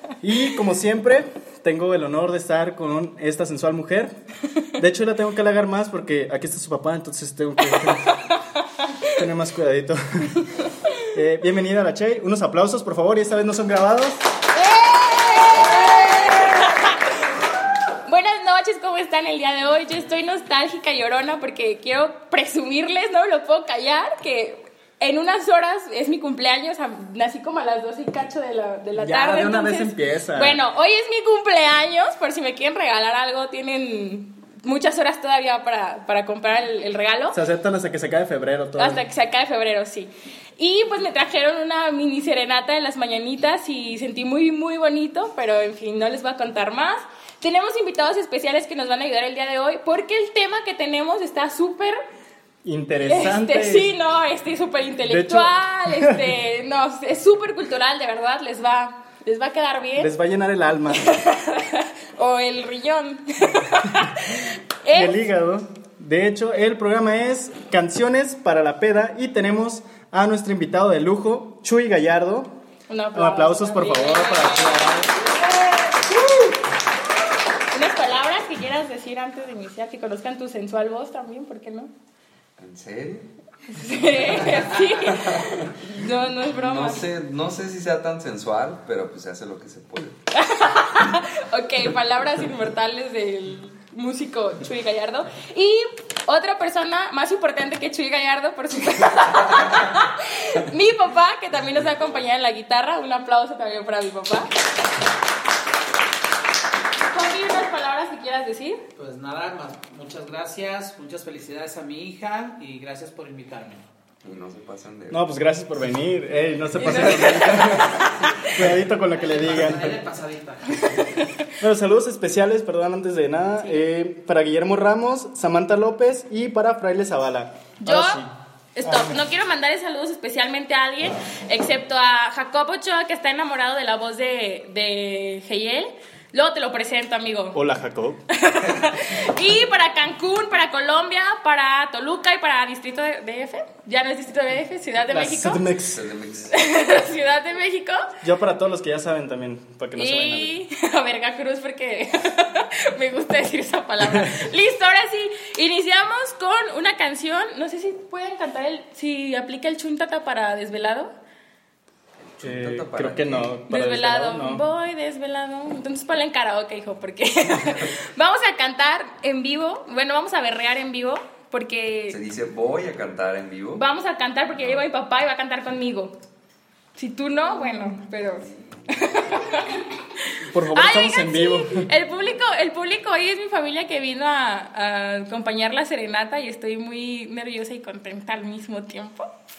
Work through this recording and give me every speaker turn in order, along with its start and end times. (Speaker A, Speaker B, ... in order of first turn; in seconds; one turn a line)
Speaker A: 0.2-4.1
Speaker A: 4.8-8.1
Speaker B: 7.8-9.1
Speaker A: 9.1-10.4
Speaker B: 10.6-11.0
Speaker A: 11.1-14.2
Speaker B: 14.5-17.1
Speaker B: 18.1-37.4
Speaker A: 29.0-30.6
Speaker A: 37.3-39.0
Speaker B: 38.8-52.0
Speaker A: 52.6-53.9
Speaker B: 53.0-60.1
Speaker A: 55.1-56.2
Speaker A: 60.0-61.1
Speaker B: 60.9-65.2
Speaker A: 64.9-72.5
Speaker B: 72.9-76.6
Speaker A: 73.1-75.1
Speaker B: 77.7-81.9
Speaker C: 82.6-83.3
Speaker B: 83.7-87.1
Speaker C: 85.2-85.5
Speaker C: 86.6-90.2
Speaker B: 90.3-104.5
Speaker B: 107.1-108.8
Speaker D: 109.0-113.8
Speaker C: 114.2-115.2
Speaker A: 115.1-119.9
Speaker B: 116.8-118.6
Speaker D: 119.0-120.9
Speaker B: 120.7-121.5
Speaker A: 121.6-128.3
Speaker B: 127.8-128.2
Speaker B: 128.8-137.6
Speaker A: 128.8-129.2
Speaker A: 137.5-138.2
Speaker B: 138.3-145.7
Speaker A: 145.1-146.0
Speaker C: 145.9-146.5
Speaker B: 146.5-148.0
Speaker A: 148.2-150.5
Speaker B: 149.9-161.1
Speaker A: 154.0-154.3
Speaker C: 162.3-163.6
Speaker A: 162.4-164.6
Speaker B: 163.7-172.2
Speaker C: 172.1-173.8
Speaker B: 173.7-176.1
Speaker B: 176.9-180.0
Speaker A: 180.4-181.9
Speaker B: 180.7-189.2